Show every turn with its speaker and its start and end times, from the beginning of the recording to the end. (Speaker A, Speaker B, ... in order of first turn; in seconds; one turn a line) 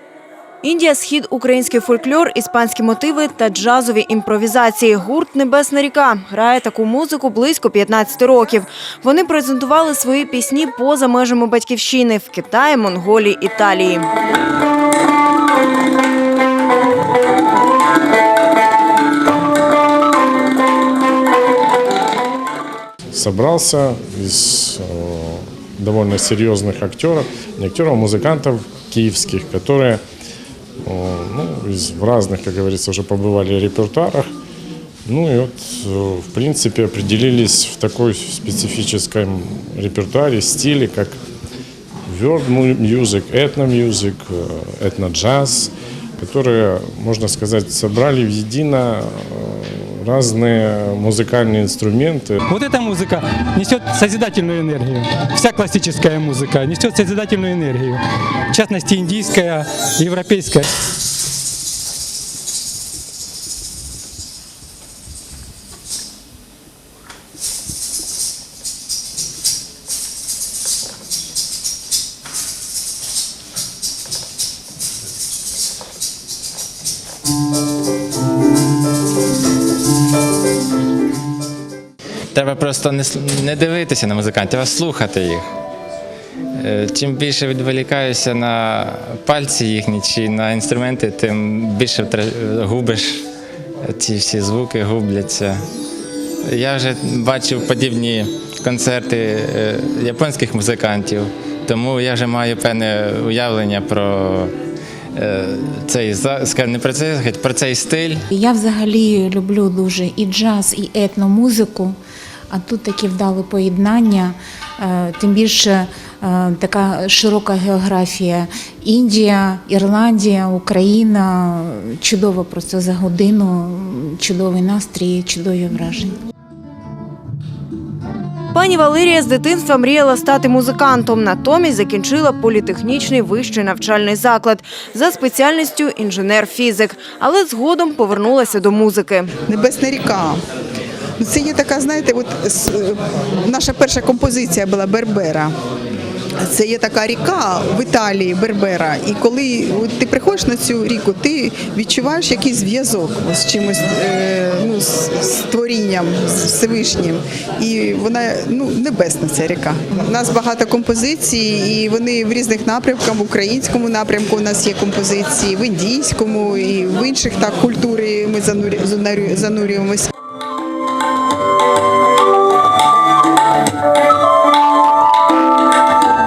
Speaker A: 0.6-14.1
Speaker B: 23.1-30.0
Speaker B: 30.9-34.3
Speaker B: 35.0-41.2
Speaker B: 42.1-52.4
Speaker C: 52.5-60.7
Speaker D: 82.3-85.5
Speaker D: 86.6-93.2
Speaker D: 93.8-95.6
Speaker D: 96.5-104.5
Speaker D: 105.2-108.2
Speaker E: 108.3-111.9
Speaker E: 112.5-126.1
Speaker A: 128.5-139.3
Speaker F: 139.5-140.4
Speaker F: 141.2-145.5
Speaker F: 146.4-170.1